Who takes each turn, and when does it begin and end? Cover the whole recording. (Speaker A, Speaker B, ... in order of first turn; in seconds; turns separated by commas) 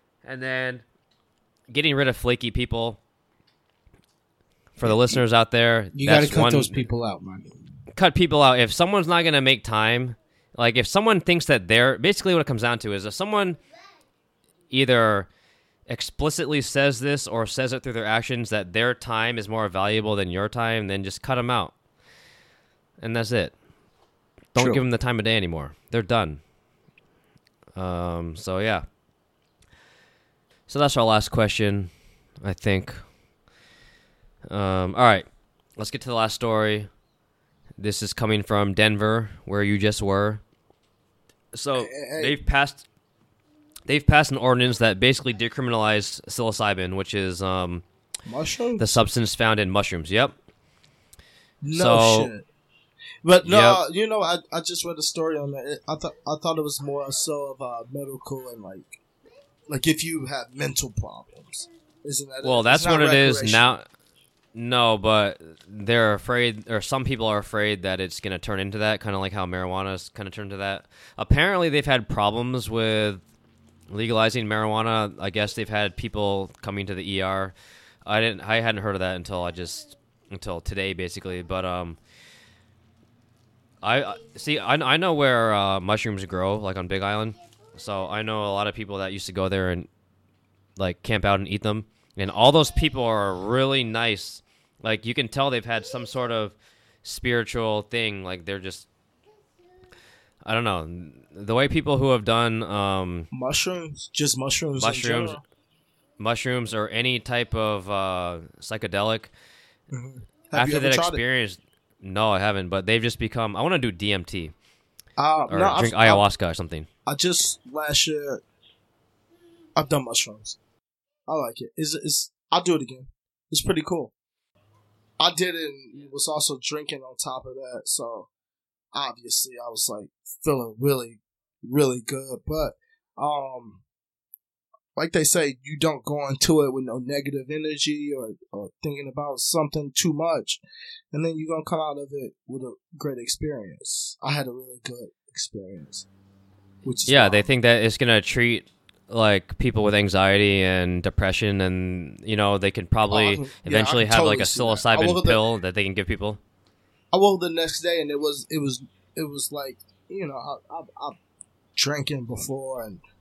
Speaker A: 0.2-0.8, Speaker A: 1.7-3.0, Speaker A: 4.8-6.8, Speaker B: 4.8-5.2, Speaker B: 5.9-7.5, Speaker A: 7.9-13.6, Speaker A: 14.7-15.3, Speaker A: 15.9-21.7, Speaker A: 23.0-23.5, Speaker A: 24.5-26.4, Speaker B: 24.6-24.8, Speaker A: 27.8-28.8, Speaker A: 30.7-31.9, Speaker A: 32.4-33.0, Speaker A: 34.5-36.9, Speaker A: 37.8-40.4, Speaker A: 41.5-42.8, Speaker C: 41.8-42.4, Speaker A: 43.9-47.8, Speaker C: 48.2-48.9, Speaker A: 48.8-50.3, Speaker C: 51.6-52.4, Speaker A: 51.7-52.3, Speaker C: 53.2-59.0, Speaker A: 53.4-53.8, Speaker C: 59.7-63.7, Speaker A: 62.4-63.9, Speaker A: 64.5-73.2, Speaker A: 73.9-77.5, Speaker A: 78.0-82.0, Speaker A: 83.8-89.9, Speaker A: 90.8-98.9, Speaker A: 100.4-103.3, Speaker C: 103.3-105.4, Speaker A: 104.8-105.4, Speaker A: 106.2-109.3, Speaker C: 109.9-111.2, Speaker A: 110.5-114.5, Speaker C: 115.2-116.2, Speaker A: 115.5-116.9, Speaker C: 117.0-118.4, Speaker C: 119.8-120.6, Speaker C: 121.3-124.1, Speaker C: 125.2-128.3, Speaker C: 128.9-133.8, Speaker C: 134.9-140.6, Speaker C: 141.1-146.1, Speaker C: 146.8-147.5, Speaker A: 147.1-156.4, Speaker C: 153.1-155.4, Speaker C: 157.1-161.2, Speaker C: 161.8-163.0